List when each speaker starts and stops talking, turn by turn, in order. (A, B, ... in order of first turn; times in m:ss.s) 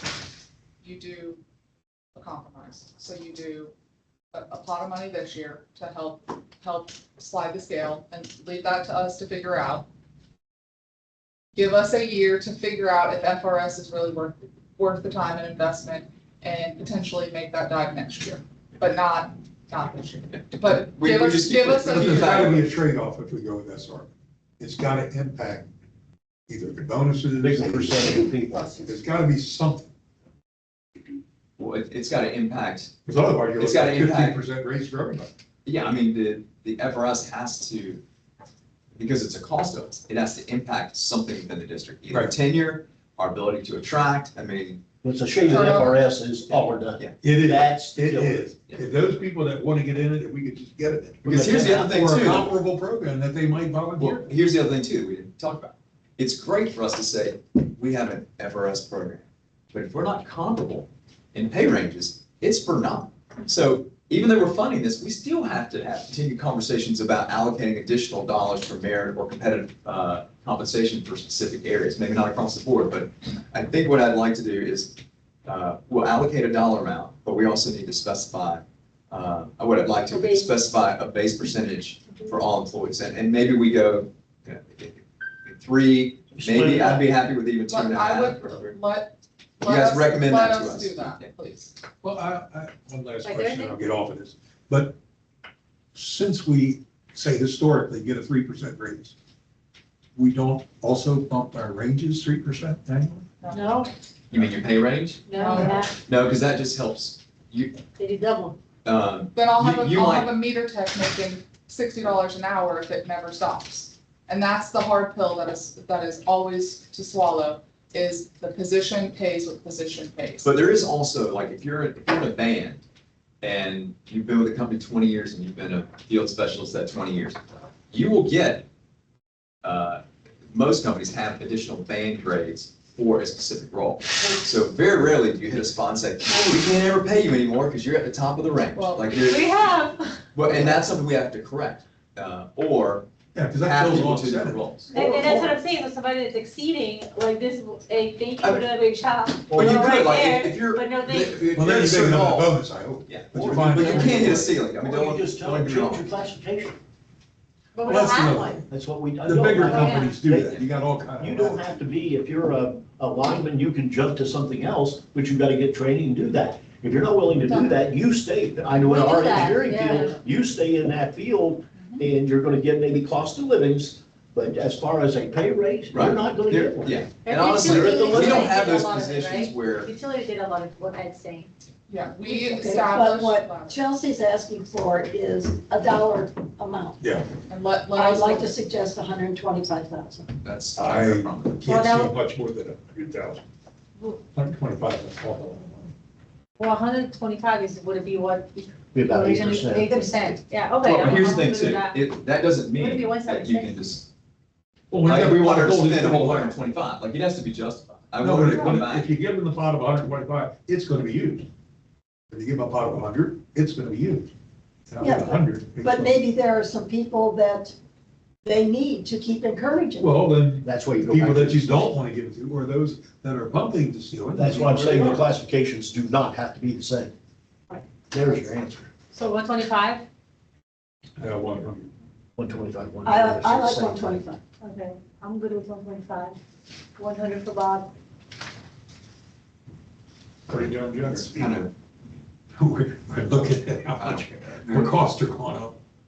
0:00.8-0:01.4 A
0:02.2-0:03.7 A
0:04.3-0:09.8 A
0:11.6-0:22.5 A
0:20.3-0:22.7 B
0:21.9-0:25.7 C
0:26.5-0:29.9 C
0:27.4-0:28.7 D
0:31.6-0:32.9 B
0:33.0-0:35.3 C
0:33.6-0:34.4 B
0:35.6-0:38.0 B
0:39.0-0:44.8 B
0:45.0-0:48.5 D
0:45.3-0:45.9 B
0:45.5-0:45.9 A
0:46.5-0:47.2 B
0:47.2-0:54.3 C
0:51.2-0:52.2 D
0:51.3-0:52.5 B
0:54.0-1:28.8 B
1:20.1-1:20.5 E
1:26.4-1:27.0 D
1:27.7-1:31.7 A
1:29.6-1:31.3 B
1:32.0-1:35.0 C
1:33.2-1:33.7 E
1:35.9-1:39.1 C
1:40.2-1:43.2 C
1:43.4-1:44.0 A
1:43.5-1:43.9 E
1:44.3-1:47.8 B
1:45.2-1:45.9 E
1:45.3-1:45.9 A
1:48.0-1:48.6 E
1:48.8-1:50.3 B
1:49.3-2:00.5 A
2:00.4-2:02.8 B
2:03.4-2:07.4 B
2:07.9-2:08.6 B
2:09.6-2:19.5 B
2:18.7-2:19.1 A
2:19.3-2:20.2 E
2:20.3-2:23.0 B
2:23.3-2:24.6 C
2:23.6-2:25.0 B
2:24.9-2:31.4 E
2:24.9-2:25.6 D
2:28.4-2:28.7 B
2:29.5-2:29.9 D
2:29.5-2:32.5 B
2:31.5-2:34.5 C
2:33.0-2:36.2 B
2:33.3-2:36.8 D
2:37.7-2:38.6 E
2:37.8-2:38.7 C
2:38.7-2:40.6 D
2:39.2-2:41.6 C
2:39.7-2:40.2 E
2:41.2-2:57.0 D
2:47.4-2:47.8 E
2:48.7-2:50.2 E
2:55.9-2:59.9 B
2:57.2-3:01.5 E
2:57.6-2:58.1 D
3:01.9-3:03.8 A
3:02.2-3:07.0 F
3:07.0-3:07.3 C
3:07.5-3:08.6 A
3:07.9-3:10.3 F
3:10.4-3:11.6 B
3:10.8-3:13.4 C
3:11.6-3:12.1 E
3:14.3-3:15.9 C
3:16.6-3:22.0 E
3:18.9-3:20.2 D
3:20.8-3:24.0 B
3:22.7-3:24.0 E
3:24.9-3:26.6 C
3:25.0-3:29.1 B
3:28.2-3:31.5 C
3:32.3-3:34.3 C
3:34.9-3:36.2 C
3:35.0-3:37.8 F
3:38.4-3:40.2 F
3:40.0-3:45.2 C
3:40.6-3:41.9 D
3:44.4-3:47.1 D
3:47.7-3:48.9 D
3:49.1-3:50.0 E
3:51.2-3:51.9 C
3:52.4-3:54.2 D
3:53.0-3:54.4 F
3:54.6-3:56.4 E
3:57.0-3:57.9 E
4:00.5-4:01.6 C
4:01.0-4:01.7 B
4:02.6-4:05.8 C
4:04.0-4:05.0 B